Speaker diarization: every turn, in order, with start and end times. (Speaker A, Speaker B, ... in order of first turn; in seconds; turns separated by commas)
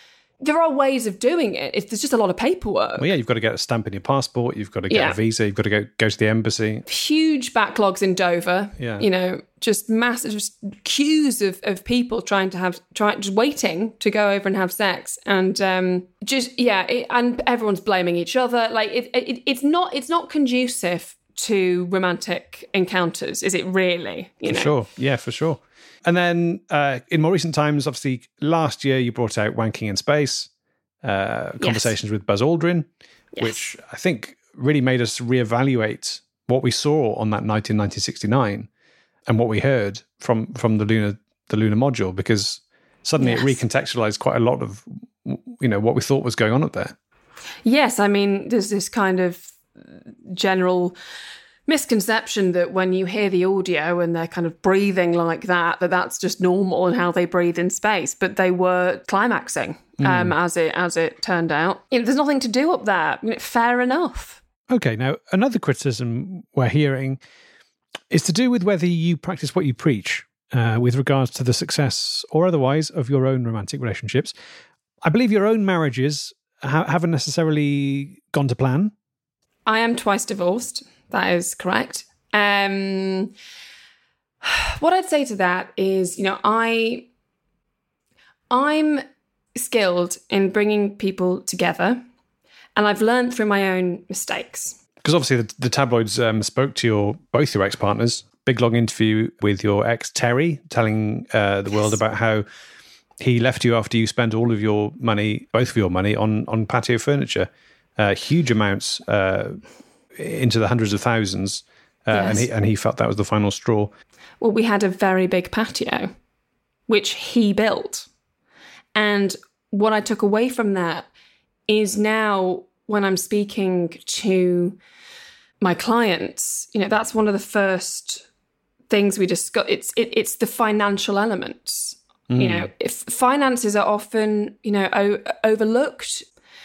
Speaker A: 0.4-3.1, Speaker B: 3.0-6.8, Speaker A: 4.9-5.2, Speaker A: 6.8-24.7, Speaker B: 8.8-9.1, Speaker B: 24.4-30.5, Speaker B: 31.0-38.7, Speaker A: 31.6-31.9, Speaker A: 33.3-33.6, Speaker B: 39.3-46.9, Speaker A: 43.2-43.6, Speaker A: 47.6-49.5, Speaker A: 50.2-51.0, Speaker A: 51.7-64.4, Speaker B: 60.0-60.3, Speaker B: 64.7-67.2, Speaker B: 68.1-74.3, Speaker B: 75.0-78.9, Speaker A: 79.7-83.3, Speaker A: 84.4-87.1, Speaker A: 88.5-89.0, Speaker A: 89.5-92.0, Speaker A: 92.8-94.8, Speaker B: 95.0-102.4, Speaker B: 103.2-109.6, Speaker B: 110.1-113.9, Speaker A: 112.1-112.5, Speaker A: 114.4-116.1, Speaker A: 116.9-118.1, Speaker A: 118.9-121.1, Speaker A: 121.7-124.8, Speaker A: 125.6-128.2, Speaker A: 128.9-136.2, Speaker B: 132.3-132.7